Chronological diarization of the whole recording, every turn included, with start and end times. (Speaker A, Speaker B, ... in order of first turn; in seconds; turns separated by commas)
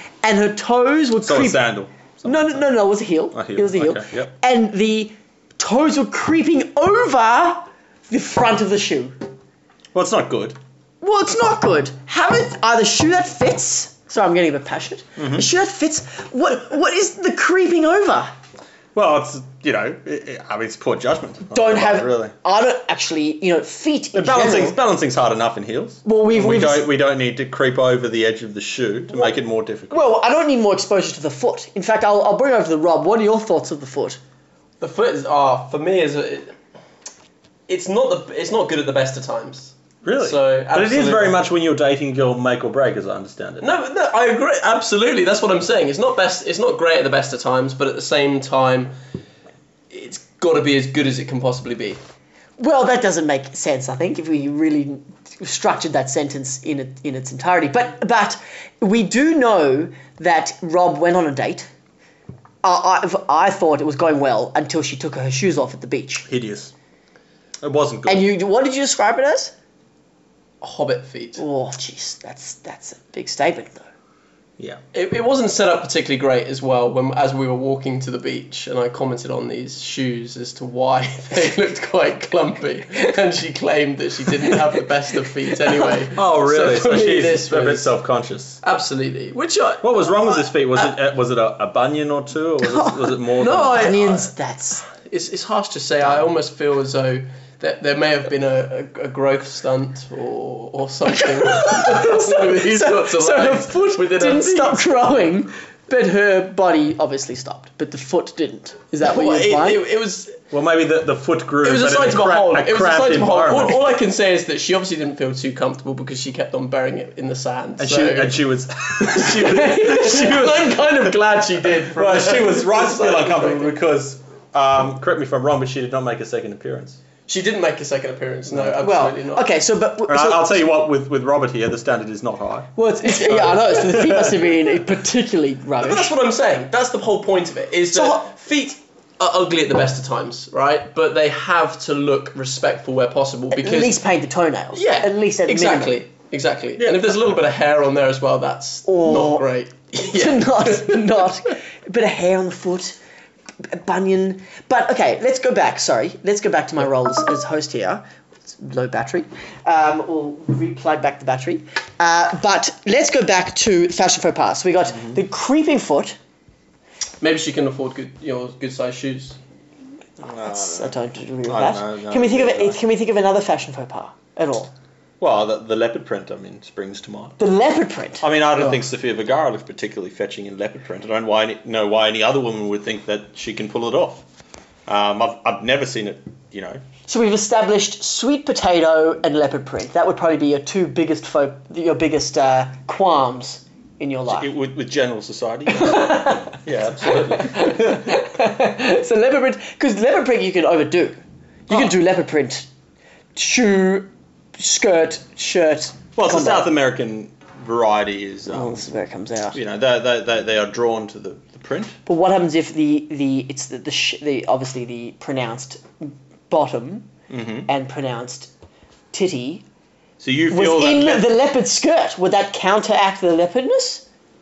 Speaker A: 0.2-1.6, Speaker B: 1.2-2.6, Speaker A: 2.2-9.2, Speaker B: 3.3-4.3, Speaker B: 9.9-10.6, Speaker A: 11.0-18.3, Speaker B: 15.2-15.5, Speaker B: 18.9-22.3, Speaker A: 21.5-24.8, Speaker B: 24.1-30.0, Speaker A: 26.0-26.9, Speaker A: 29.9-34.2, Speaker C: 34.8-36.5, Speaker C: 37.7-41.4, Speaker B: 40.0-43.7, Speaker C: 43.6-48.9, Speaker C: 49.9-52.0, Speaker A: 52.6-61.7, Speaker A: 62.6-66.3, Speaker B: 66.3-66.7, Speaker B: 67.6-68.3, Speaker A: 68.0-69.5, Speaker C: 70.6-71.4, Speaker A: 71.4-73.8, Speaker C: 74.9-87.9, Speaker B: 86.1-88.6, Speaker C: 88.6-90.5, Speaker B: 89.8-94.2, Speaker A: 92.6-94.9, Speaker C: 93.4-93.9, Speaker C: 95.0-104.8, Speaker A: 101.1-109.8, Speaker C: 109.0-110.4, Speaker B: 110.5-113.8, Speaker C: 111.6-118.4, Speaker B: 117.8-120.2, Speaker C: 119.0-123.7, Speaker A: 119.4-120.7, Speaker B: 121.9-127.0, Speaker C: 127.3-129.4, Speaker A: 128.8-130.7, Speaker B: 130.1-132.7, Speaker A: 132.8-136.1, Speaker B: 133.2-134.4, Speaker C: 135.8-143.9, Speaker A: 137.9-138.2, Speaker A: 143.5-146.0, Speaker C: 144.7-151.1, Speaker B: 146.8-147.1, Speaker A: 148.9-153.0, Speaker A: 153.6-166.2, Speaker C: 167.2-169.4, Speaker A: 170.2-174.7, Speaker B: 170.2-170.9, Speaker B: 171.4-172.8, Speaker B: 175.2-177.4, Speaker A: 177.4-178.8, Speaker B: 178.2-184.2, Speaker B: 184.9-186.8, Speaker A: 187.1-194.5, Speaker B: 194.3-198.2, Speaker A: 195.7-202.7, Speaker A: 203.3-206.7, Speaker B: 206.2-208.8, Speaker A: 208.5-209.6, Speaker B: 209.5-212.0, Speaker A: 212.1-217.1, Speaker B: 217.3-217.7, Speaker A: 217.7-218.5, Speaker A: 219.1-219.6, Speaker B: 220.2-221.3, Speaker A: 220.5-224.0